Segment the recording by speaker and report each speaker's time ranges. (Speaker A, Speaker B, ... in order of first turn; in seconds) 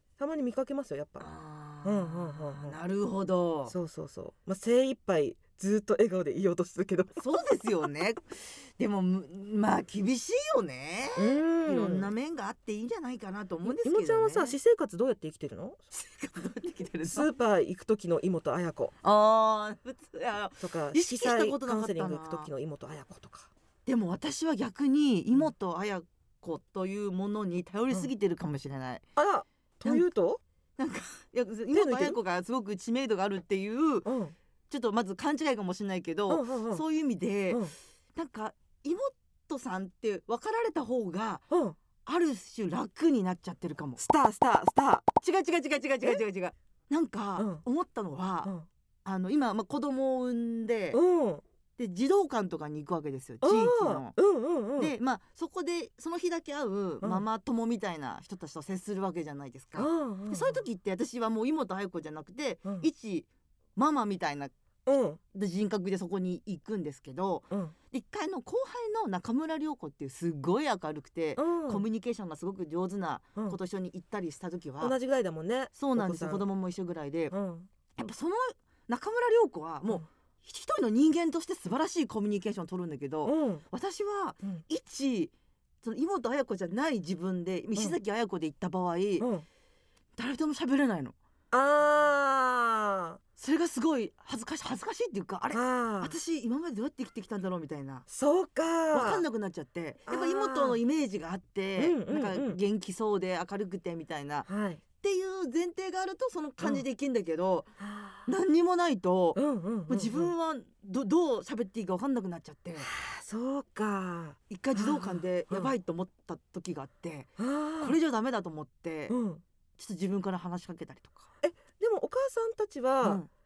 Speaker A: 0.2-1.3, 1.8-2.8, 3.7-7.2, 11.2-12.1, 13.7-15.8, 17.1-18.9, 20.6-23.5, 29.2-30.4, 31.7-32.2, 34.0-34.4, 36.3-36.8, 41.5-41.8, 44.0-45.0, 47.4-47.6, 50.9-51.4, 53.4-55.0, 59.8-60.6, 64.9-65.2, 71.4-71.8, 74.8-76.5, 77.3-77.7, 83.2-83.6, 89.2-89.5, 91.5-93.2, 95.5-96.2, 98.1-99.2, 100.1-100.8, 101.8-102.6, 104.5-104.8, 107.8-108.3, 109.3-110.3, 112.8-115.7, 117.4-118.0, 119.1-119.4, 121.4-123.2
Speaker B: 1.2-3.7, 7.2-14.6, 15.9-17.3, 19.0-22.5, 23.9-29.0, 30.8-34.1, 34.7-41.5, 42.0-44.0, 45.2-48.5, 49.0-51.0, 51.8-54.1, 54.8-64.5, 65.3-75.0, 75.8-77.3, 78.0-85.3, 85.8-89.3, 90.2-91.2, 93.4-98.0, 98.9-104.5, 105.0-107.7, 108.3-112.9, 114.5-119.2, 119.8-121.3, 123.0-123.3